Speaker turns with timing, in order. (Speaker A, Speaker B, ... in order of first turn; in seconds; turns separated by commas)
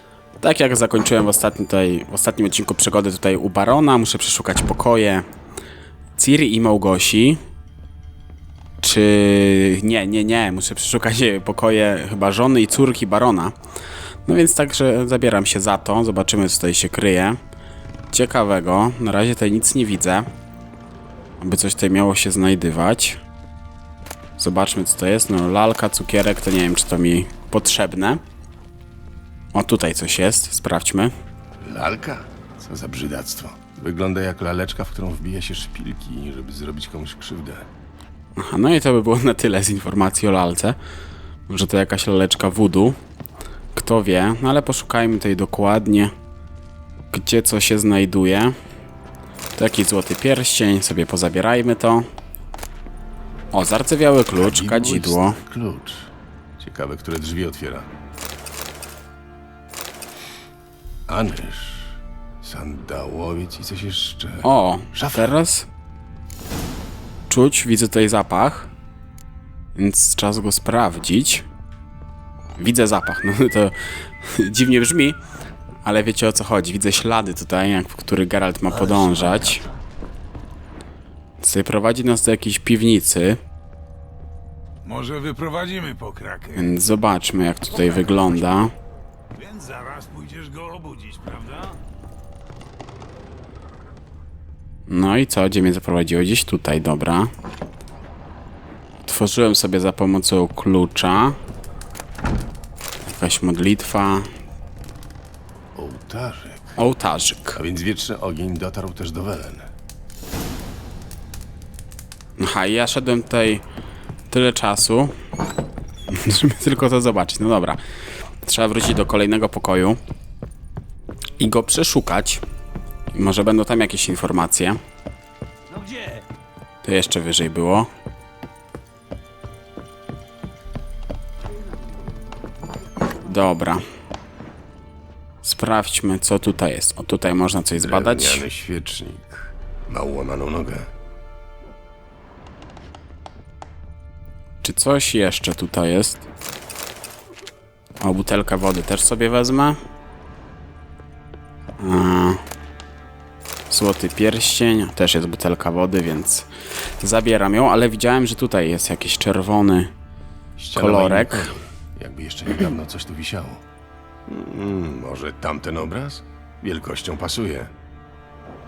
Speaker A: 0.4-5.2, Speaker A: 6.2-7.4, Speaker A: 8.8-13.5, Speaker A: 14.2-17.4, Speaker A: 18.1-20.3, Speaker A: 21.4-23.2, Speaker A: 24.4-28.2, Speaker A: 29.5-31.1, Speaker B: 31.6-37.7, Speaker A: 38.4-40.8, Speaker A: 41.5-43.0, Speaker A: 43.7-46.1, Speaker A: 47.1-48.5, Speaker A: 49.5-52.0, Speaker A: 53.5-55.4, Speaker B: 54.3-57.9, Speaker B: 61.1-65.4, Speaker A: 64.4-65.7, Speaker A: 67.3-68.7, Speaker A: 69.8-71.4, Speaker A: 72.6-75.2, Speaker A: 75.8-79.6, Speaker A: 81.4-83.4, Speaker C: 84.8-86.7, Speaker A: 86.5-88.7, Speaker C: 87.8-88.3, Speaker C: 89.3-91.8, Speaker A: 94.9-97.3, Speaker A: 99.0-101.4, Speaker A: 103.1-104.3, Speaker B: 105.7-106.8, Speaker A: 106.8-107.6, Speaker B: 107.5-109.7, Speaker A: 112.4-113.6, Speaker A: 114.3-115.1, Speaker A: 116.1-117.8, Speaker A: 118.4-120.0, Speaker A: 121.4-122.4, Speaker A: 123.1-124.8, Speaker C: 125.7-126.2, Speaker A: 126.8-127.9, Speaker A: 133.2-133.8, Speaker A: 135.4-138.4, Speaker B: 137.8-140.9, Speaker A: 144.6-146.2, Speaker A: 148.0-149.8, Speaker A: 151.8-152.4, Speaker A: 153.7-156.5, Speaker A: 157.0-159.9, Speaker B: 160.6-163.6, Speaker A: 160.7-161.5, Speaker B: 164.3-167.7